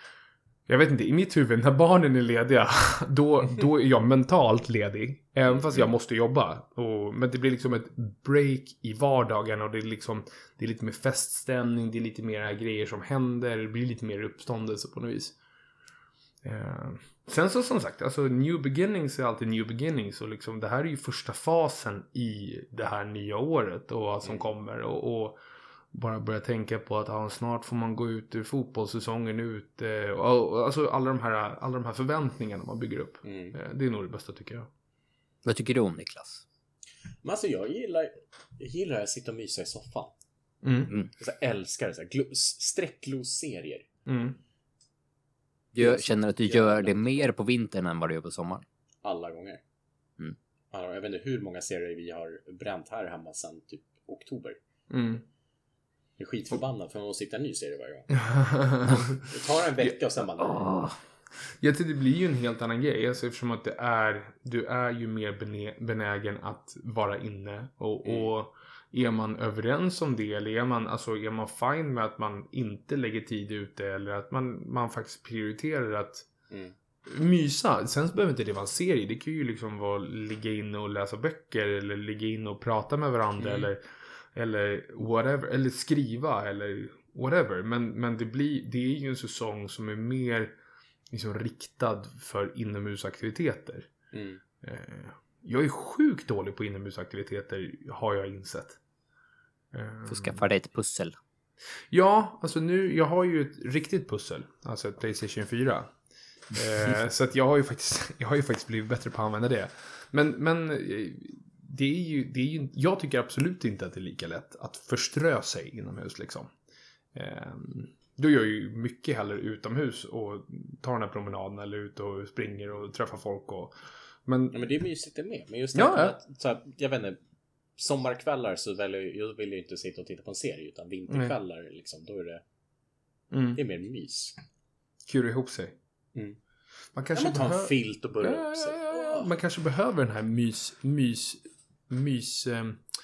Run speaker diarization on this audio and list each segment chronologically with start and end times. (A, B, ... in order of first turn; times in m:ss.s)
0:00.7-0:15.4 A
0:16.4-0:25.4 A
0:25.9-0:34.7 A
0:33.2-0:33.6 B
0:35.4-0:36.4 C
0:37.2-0:40.1 B
0:40.6-0:40.9 A
0:41.2-0:43.9 B
0:44.1-0:44.4 A
0:45.7-0:48.6 C
0:45.8-0:47.3 B
0:49.0-0:49.6 B
0:50.7-0:54.6 B
0:54.9-0:55.2 A
0:56.2-0:58.2 B
0:58.1-0:59.3 A
0:59.2-1:00.8 B
1:00.6-1:00.9 C
1:01.6-1:16.3 A
1:08.0-1:08.3 B
1:17.1-1:30.5 A
1:23.4-1:23.7 B
1:31.1-1:33.9 A
1:34.1-1:34.4 B
1:34.6-1:38.8 A
1:39.7-1:40.4 A
1:40.1-1:41.2 C
1:41.9-1:45.9 A
1:46.5-1:56.5 A
1:57.1-2:03.7 A
2:04.2-2:04.6 A
2:04.5-2:07.2 B
2:05.7-2:06.2 A
2:07.8-2:12.4 B
2:13.3-2:13.6 A
2:13.6-2:14.4 B
2:15.1-2:15.8 A
2:16.9-2:22.8 A
2:17.1-2:19.3 B